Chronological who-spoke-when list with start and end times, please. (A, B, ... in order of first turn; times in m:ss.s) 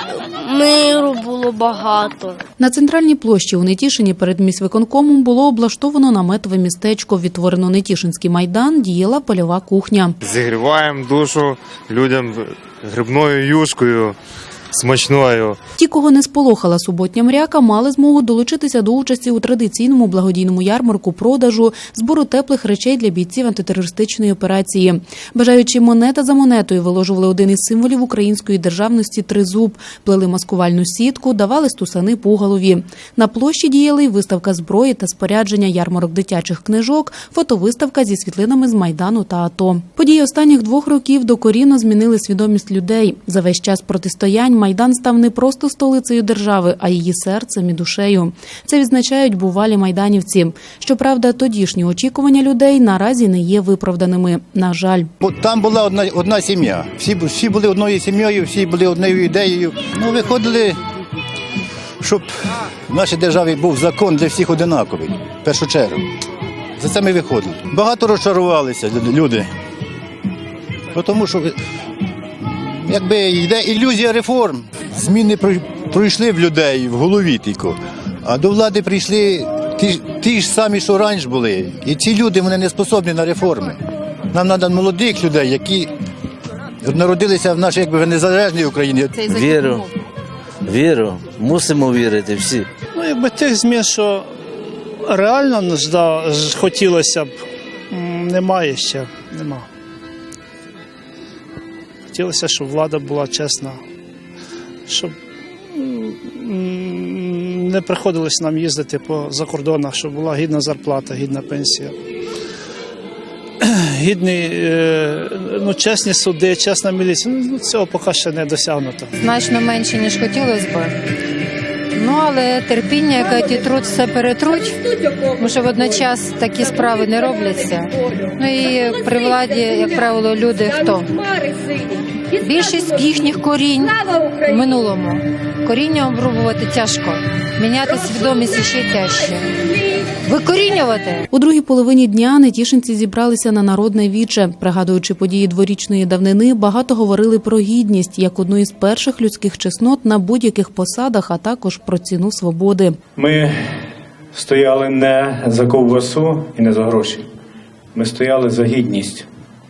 0:00.3-0:02.4 A
0:02.6-0:10.2 B
0:10.2-0:14.2 C
0:14.7-0:15.6 C
0:15.8-0:55.1 B
0:55.2-1:00.8 D
1:02.0-1:06.0 D
1:06.8-1:09.5 D
1:11.0-1:11.6 D
1:12.8-1:23.8 D
1:24.3-1:25.9 D
1:26.8-1:29.2 D
1:29.3-1:29.9 E
1:29.4-1:29.7 F
1:30.7-1:32.7 F
1:33.0-1:34.3 G
1:35.0-1:37.4 G
1:37.9-1:39.7 G
1:42.1-1:43.8 G
1:44.9-1:45.1 G
1:45.7-1:52.0 G
1:53.6-1:59.1 G
1:59.2-2:00.9 E
2:02.0-2:11.2 E
2:12.3-2:19.5 E
2:20.2-2:21.2 E
2:21.3-2:33.0 B
2:33.2-2:33.5 H
2:34.3-2:37.2 H
2:37.9-2:39.2 H